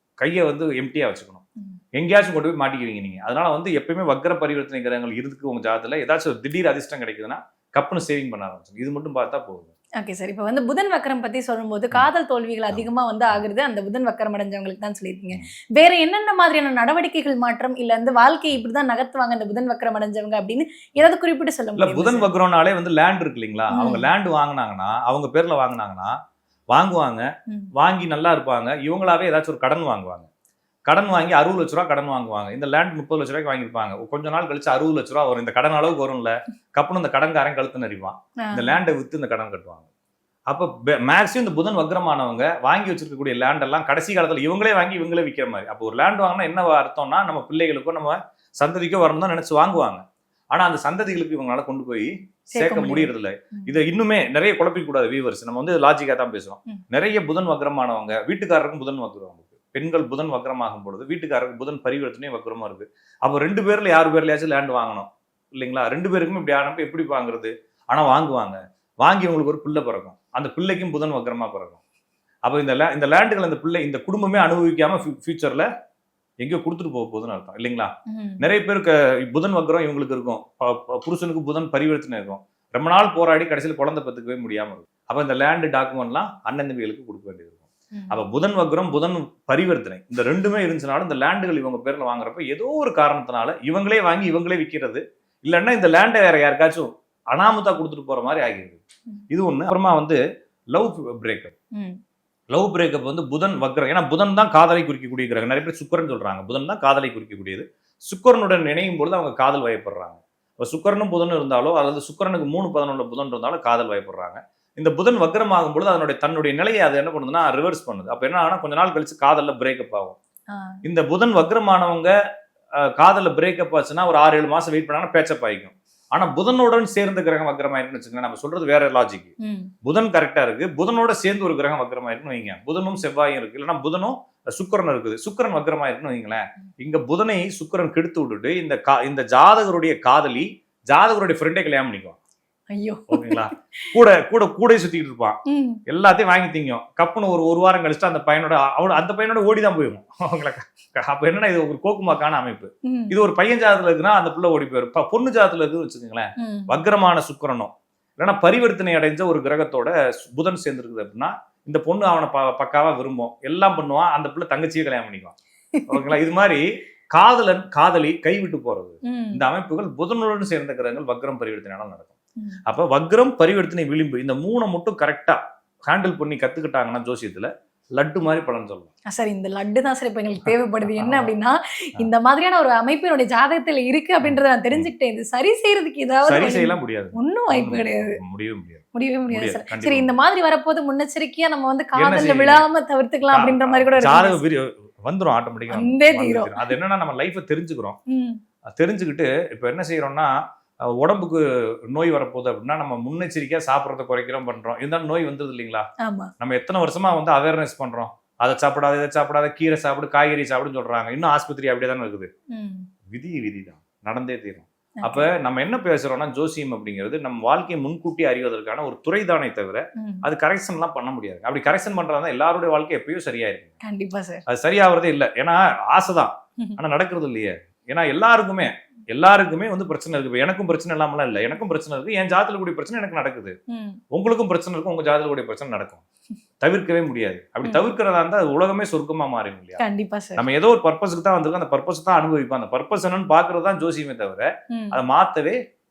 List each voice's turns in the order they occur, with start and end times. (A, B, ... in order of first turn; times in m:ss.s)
0:00.2-0:01.4 A
0:02.0-0:09.7 A
0:10.0-0:22.3 B
0:12.7-0:13.4 A
0:21.8-0:26.1 A
0:23.7-0:24.1 B
0:26.7-0:30.3 A
0:30.9-0:39.9 A
0:38.4-0:38.8 B
0:40.5-1:11.8 A
0:52.6-0:53.8 B
1:12.5-1:15.7 A
1:16.4-1:40.2 A
1:18.1-1:18.4 B
1:40.7-1:41.5 A
1:42.5-2:00.2 A
2:00.5-2:00.8 B
2:00.8-2:02.1 A
2:02.8-2:09.3 A
2:09.4-2:09.7 B
2:09.8-2:22.2 A
2:22.7-2:23.9 B
2:23.1-2:45.4 A
2:25.5-2:25.8 B
2:32.9-2:33.2 B
2:36.4-2:36.7 B
2:45.8-2:46.1 B
2:45.9-2:52.2 A
2:49.1-2:49.4 B
2:52.7-2:58.9 A
2:59.1-3:08.2 B
3:00.5-3:01.3 A
3:04.2-3:04.9 A
3:06.2-3:10.1 A
3:09.0-3:14.4 B
3:12.0-3:12.6 A
3:13.3-3:18.0 A
3:15.7-3:16.7 B
3:18.1-3:18.4 B
3:18.8-3:20.3 A
3:20.9-3:25.9 A
3:26.0-3:26.3 B
3:26.4-3:32.3 A
3:32.5-3:32.9 B
3:33.1-3:43.7 A
3:35.0-3:35.3 B
3:43.8-3:44.4 B
3:44.5-3:53.5 A
3:53.7-3:54.0 B
3:54.1-3:56.0 A
3:56.6-3:59.8 A
3:59.8-4:00.4 B
4:00.4-4:05.6 A
4:04.7-4:05.0 B